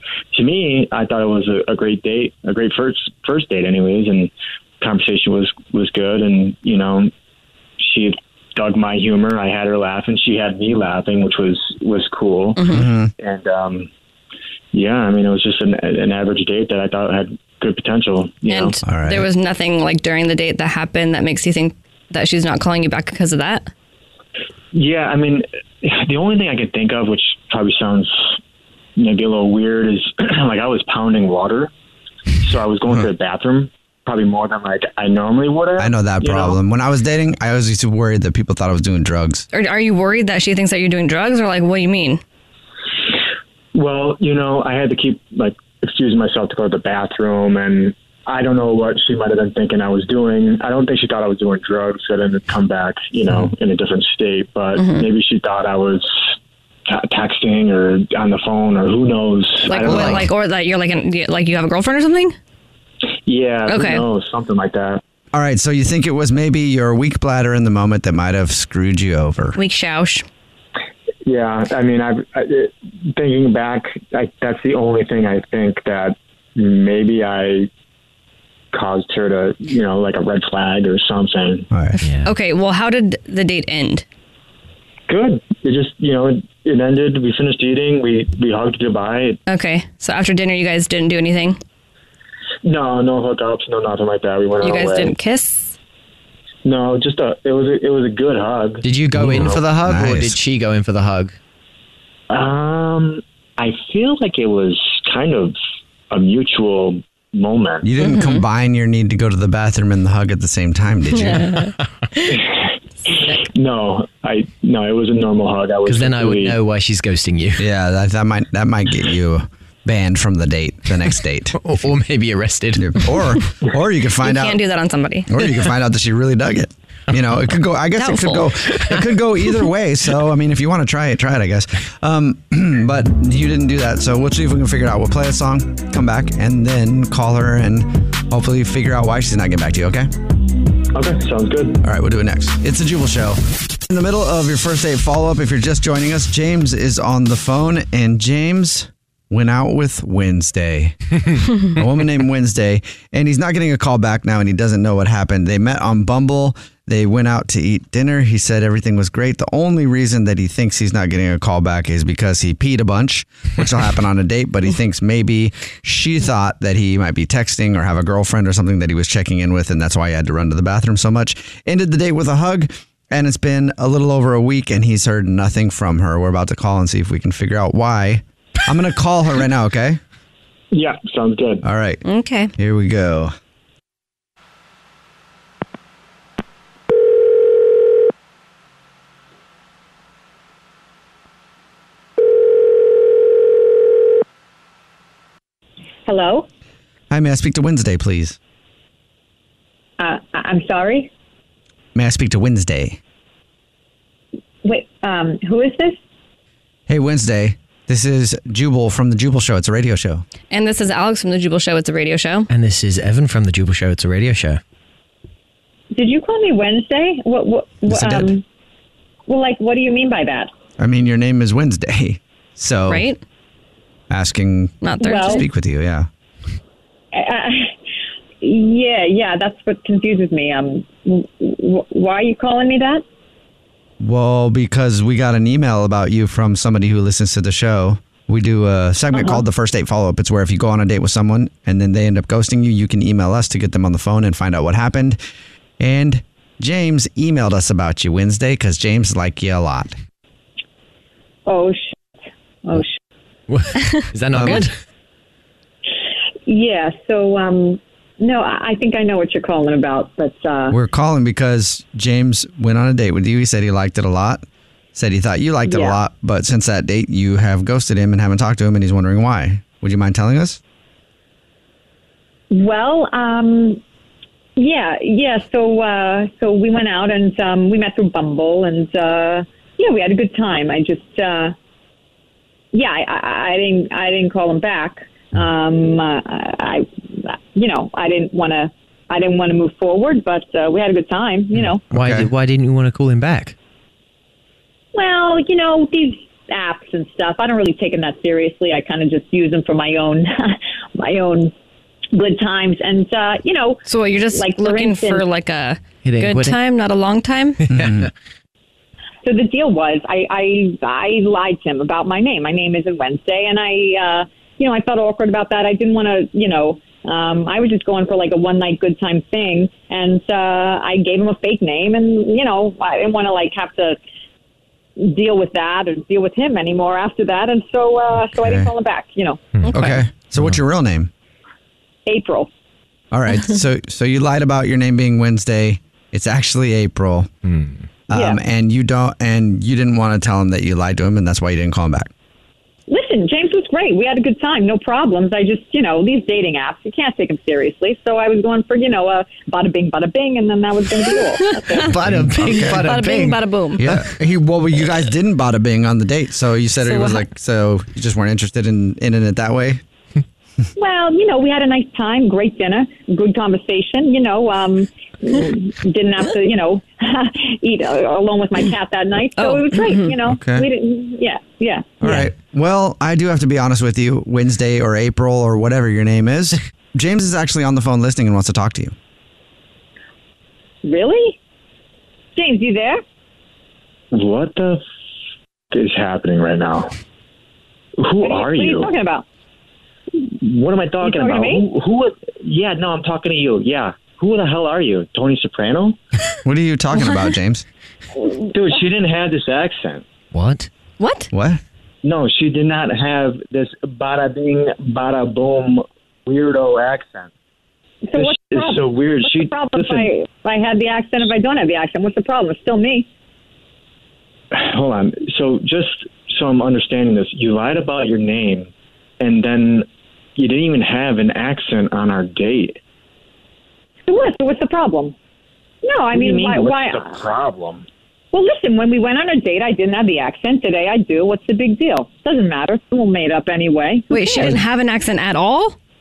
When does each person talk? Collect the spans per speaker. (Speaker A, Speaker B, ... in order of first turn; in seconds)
Speaker A: 0.3-7.1, 7.8-12.6, 13.2-13.9, 14.7-18.8, 24.7-28.1, 29.0-31.7, 32.4-36.6, 43.7-56.2, 56.9-60.3, 63.3-65.0, 71.3-77.7, 78.7-81.7, 85.1-89.4, 92.6-95.2, 96.7-99.6, 102.3-105.6, 106.1-107.8, 112.3-112.7, 113.4-116.6, 140.9-141.8, 180.7-181.6, 384.1-384.8, 385.7-386.9, 388.0-388.9, 390.4-396.0, 398.5-400.0, 402.0-407.3, 408.1-410.1, 414.5-422.8, 426.1-427.8
Speaker B: 12.6-12.9, 18.5-23.7, 39.5-42.2, 54.8-55.1, 59.6-62.4, 63.7-64.0, 69.5-70.2, 82.2-84.0, 89.5-91.6, 94.6-95.8, 108.0-108.4, 111.2-111.7, 113.1-113.4, 124.2-125.6, 128.0-128.5, 182.0-182.5, 210.5-212.5, 222.9-223.2, 224.8-225.4, 253.9-254.7, 303.9-307.6, 329.6-330.0, 351.4-351.9, 352.5-353.9, 356.8-357.3, 369.4-370.1, 397.0-397.3, 401.0-401.3, 434.1-435.8
Speaker C: 12.7-13.1, 18.9-19.3, 35.8-39.5, 59.9-60.2, 65.3-69.6, 81.7-82.0, 99.1-100.4, 107.8-111.5, 117.6-121.6, 122.8-124.6, 125.3-140.1, 141.8-151.0, 151.8-180.0, 181.6-182.0, 182.6-183.3, 197.1-198.4, 201.9-203.0, 206.9-210.2, 217.9-218.3, 220.8-223.1, 224.1-226.1, 234.0-245.2, 245.8-249.9, 254.3-254.7, 260.7-264.4, 264.9-270.6, 291.9-292.3, 307.7-308.1, 328.4-328.7, 329.7-331.1, 333.1-337.3, 338.1-342.1, 351.9-353.0, 353.8-359.8, 370.2-370.7, 372.0-378.9, 396.4-397.6, 401.3-401.6
Speaker D: 59.9-60.2, 82.0-82.3, 98.8-101.4, 115.9-117.7, 121.5-123.1, 212.5-214.6, 253.5-254.7, 291.6-293.6, 306.0-306.6, 307.6-308.1, 329.6-330.6, 337.4-337.9, 351.8-354.1, 400.3-400.7
Speaker E: 196.1-196.5, 200.0-201.1, 204.6-206.0, 215.9-218.4, 219.3-220.5, 225.0-225.4, 227.1-227.7, 228.4-233.0, 239.1-239.4, 251.5-251.9, 252.7-252.9, 256.5-260.8, 265.7-266.0, 272.5-273.8, 274.6-281.5, 282.7-291.8, 294.9-301.5, 302.1-305.2, 309.2-324.0, 325.0-329.4, 332.1-332.5, 338.1-338.4, 342.9-351.9, 360.8-372.0, 380.8-381.4, 382.4-383.0, 388.2-389.2, 391.0-391.6, 408.1-413.1, 424.1-425.1, 425.8-427.2, 428.3-434.5